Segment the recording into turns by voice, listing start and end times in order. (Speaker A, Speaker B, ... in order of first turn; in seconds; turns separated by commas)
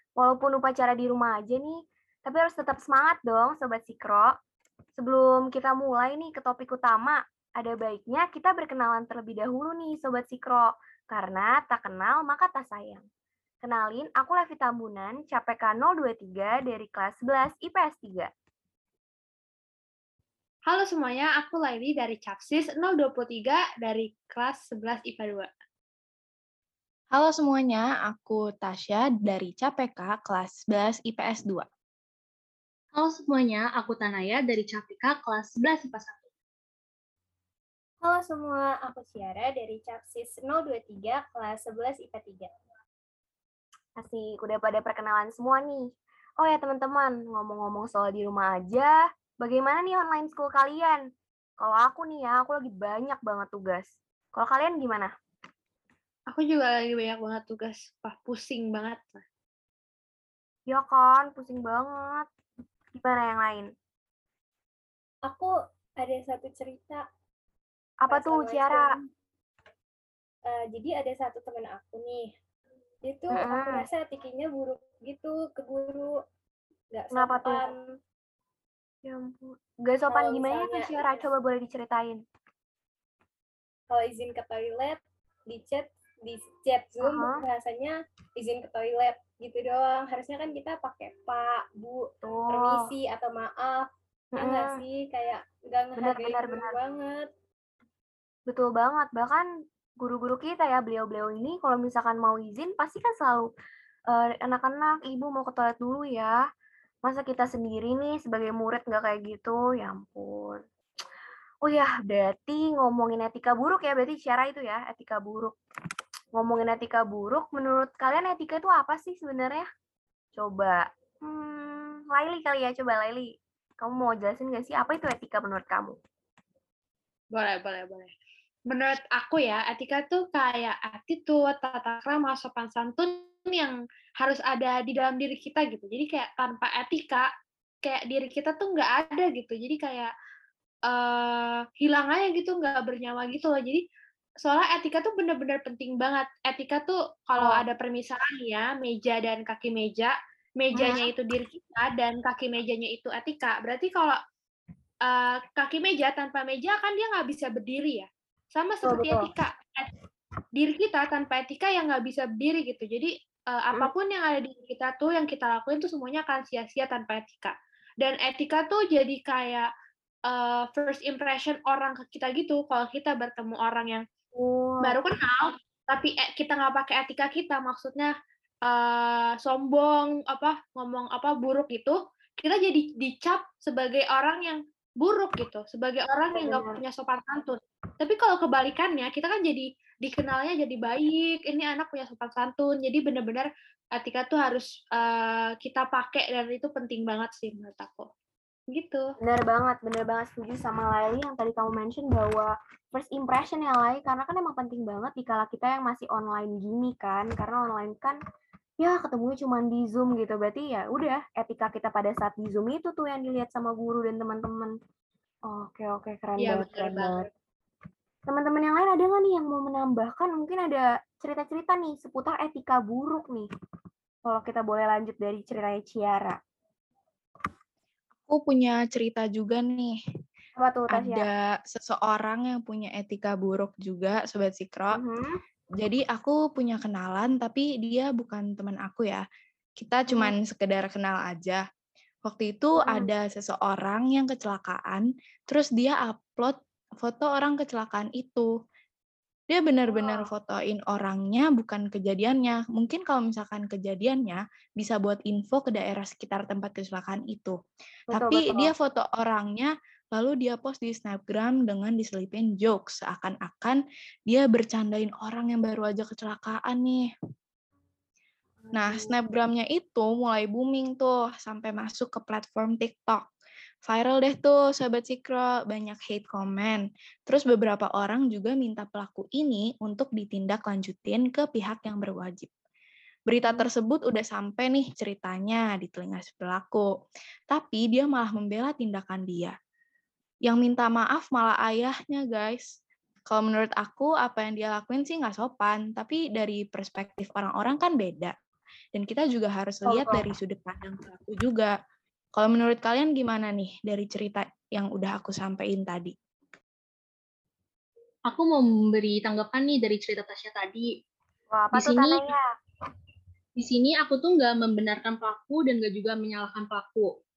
Speaker A: 0.2-4.3, Speaker A: 4.9-13.0, Speaker A: 13.6-18.3, Speaker B: 20.7-25.5, Speaker C: 27.1-31.7, Speaker D: 32.9-36.2, Speaker E: 38.0-42.5, Speaker A: 44.0-51.0, Speaker A: 51.6-55.1, Speaker B: 56.3-59.2, Speaker A: 60.7-62.3, Speaker A: 62.9-63.7, Speaker E: 65.2-67.0, Speaker A: 68.0-68.8, Speaker E: 68.1-69.0, Speaker E: 70.5-72.3, Speaker E: 73.0-76.2, Speaker A: 73.3-73.9, Speaker E: 76.9-77.9, Speaker A: 77.1-77.7, Speaker A: 79.0-82.2, Speaker E: 80.1-81.2, Speaker E: 83.9-97.3, Speaker A: 87.0-87.4, Speaker A: 92.2-92.9, Speaker A: 94.3-94.8, Speaker A: 96.0-96.7, Speaker A: 98.5-99.5, Speaker A: 100.0-103.5, Speaker A: 104.1-106.4, Speaker A: 107.0-110.6, Speaker A: 111.6-115.5, Speaker A: 116.3-119.7, Speaker A: 120.3-126.0, Speaker B: 127.3-128.1, Speaker B: 128.7-137.3, Speaker B: 137.8-140.1, Speaker B: 140.9-143.8, Speaker B: 144.4-154.2, Speaker A: 147.4-147.6, Speaker A: 150.7-151.1, Speaker B: 155.1-159.9, Speaker A: 158.8-159.3, Speaker B: 160.5-169.7, Speaker B: 170.3-174.0, Speaker A: 174.3-175.0, Speaker B: 174.8-178.1, Speaker B: 178.7-198.1, Speaker A: 186.3-186.8, Speaker B: 198.7-199.1, Speaker A: 199.2-208.2, Speaker A: 208.8-214.7, Speaker A: 215.5-217.3, Speaker B: 216.4-217.3, Speaker A: 218.3-223.5, Speaker A: 224.2-226.4, Speaker C: 228.2-230.0, Speaker A: 230.6-231.2, Speaker C: 230.9-235.0, Speaker A: 234.9-235.4, Speaker C: 235.8-239.2, Speaker C: 239.8-241.6, Speaker A: 240.1-240.3, Speaker C: 242.2-248.5, Speaker A: 242.8-243.1, Speaker C: 249.5-257.6, Speaker A: 249.9-250.3, Speaker A: 258.1-258.7, Speaker C: 258.1-267.0, Speaker A: 268.6-269.1, Speaker C: 268.7-273.2, Speaker C: 273.8-282.5, Speaker C: 283.3-286.9, Speaker A: 283.4-283.7, Speaker C: 287.5-289.5, Speaker C: 290.4-292.7, Speaker C: 293.3-298.3, Speaker C: 298.9-301.7, Speaker C: 302.4-306.1, Speaker D: 308.3-310.9, Speaker A: 311.5-312.5, Speaker D: 311.7-312.3, Speaker D: 313.6-317.2